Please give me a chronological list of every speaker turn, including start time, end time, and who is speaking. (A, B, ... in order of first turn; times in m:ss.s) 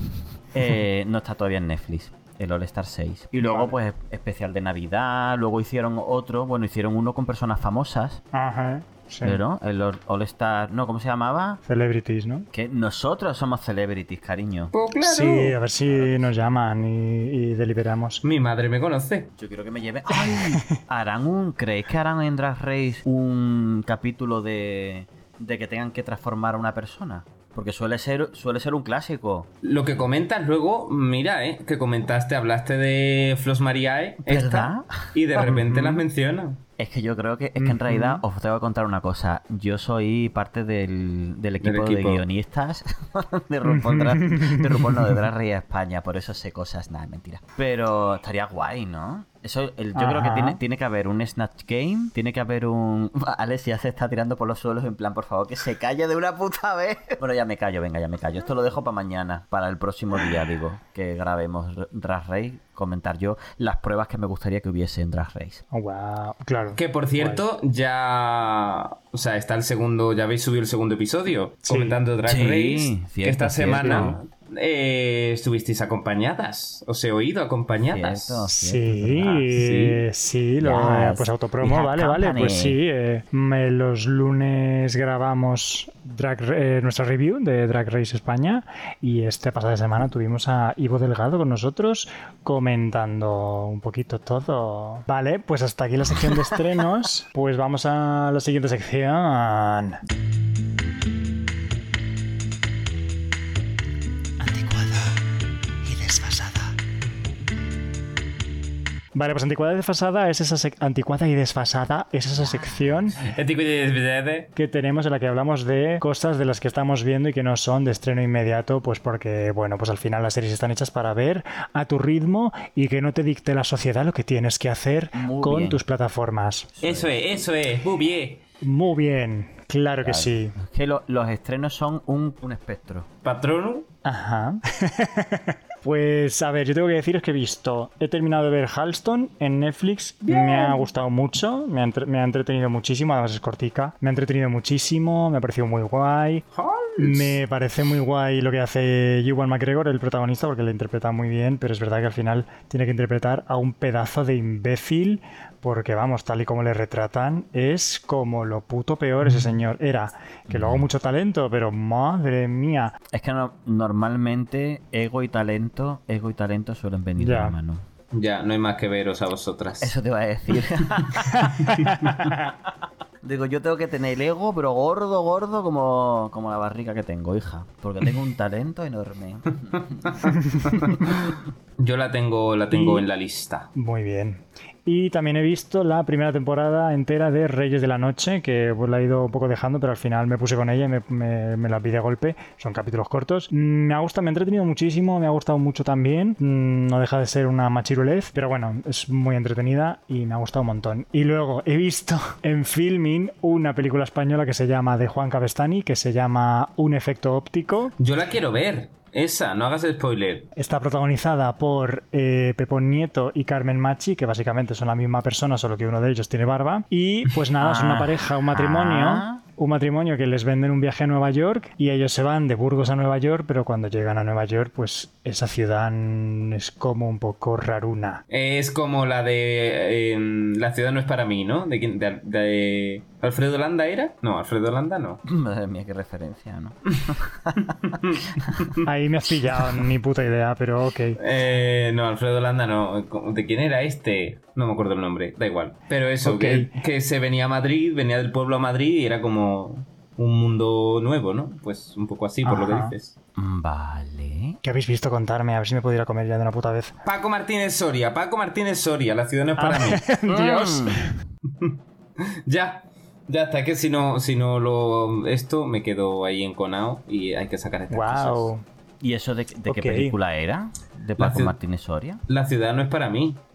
0:00.5-0:08.2 A
0:03.4-0:03.7 B
0:08.3-0:09.4 B
0:09.2-0:11.6 A
0:11.6-0:12.5 B
0:12.5-0:14.7 A
0:14.7-0:15.6 C
0:15.0-0:18.2 B
0:15.9-0:16.3 A
0:18.2-0:19.3 C
0:19.4-0:29.5 A
0:20.1-0:20.8 B
0:29.6-0:36.6 C
0:34.2-0:35.9 A
0:36.8-1:05.6 A
0:37.6-0:38.2 B
0:41.6-0:42.2 C
0:43.6-0:45.2 B
0:50.0-0:50.6 B
1:05.7-1:07.4 B
1:06.8-1:18.4 C
1:11.6-1:12.0 B
1:12.2-1:14.2 A
1:13.7-1:14.2 B
1:17.8-1:19.5 A
1:18.5-1:40.0 B
1:19.5-1:20.0 C
1:20.6-1:22.8 A
1:45.8-1:46.7 B
1:49.1-1:53.2 B
1:52.4-1:53.2 A
1:53.2-1:54.5 C
1:54.5-2:06.7 B
2:05.1-2:05.8 A
2:06.7-2:07.2 A
2:06.8-2:08.4 C
2:08.6-2:10.6 B
2:10.0-2:13.1 A
2:13.2-2:13.9 C
2:14.0-2:26.4 B
2:20.2-2:20.9 C
2:26.5-2:27.4 C
2:27.0-2:43.0 B
2:40.5-2:40.9 A
2:43.1-2:47.8 A
2:47.2-2:47.6 B
2:48.1-2:49.9 C
2:49.8-2:51.5 A
2:51.3-2:52.4 B
2:51.5-2:52.0 C
2:52.2-3:00.2 A
2:59.7-3:03.7 C
3:00.2-3:00.8 B
3:00.8-3:01.2 A
3:02.7-3:03.0 B
3:03.7-3:27.9 B
3:28.0-3:30.5 C
3:30.6-3:48.2 B
3:37.6-3:39.4 A
3:48.3-3:55.2 C
3:55.2-3:58.6 A
3:57.8-3:58.8 C
3:58.8-4:01.2 B
4:01.2-4:13.1 C
4:06.2-4:06.7 B
4:12.4-4:12.9 B
4:13.4-4:14.6 A
4:14.6-4:16.9 B
4:17.0-4:20.0 C
4:19.6-4:21.1 B
4:20.3-4:21.1 A
4:21.6-4:28.5 C
4:27.9-4:28.6 B
4:29.0-4:32.2 A
4:29.7-4:30.1 B
4:31.2-4:31.5 C
4:32.3-4:33.4 C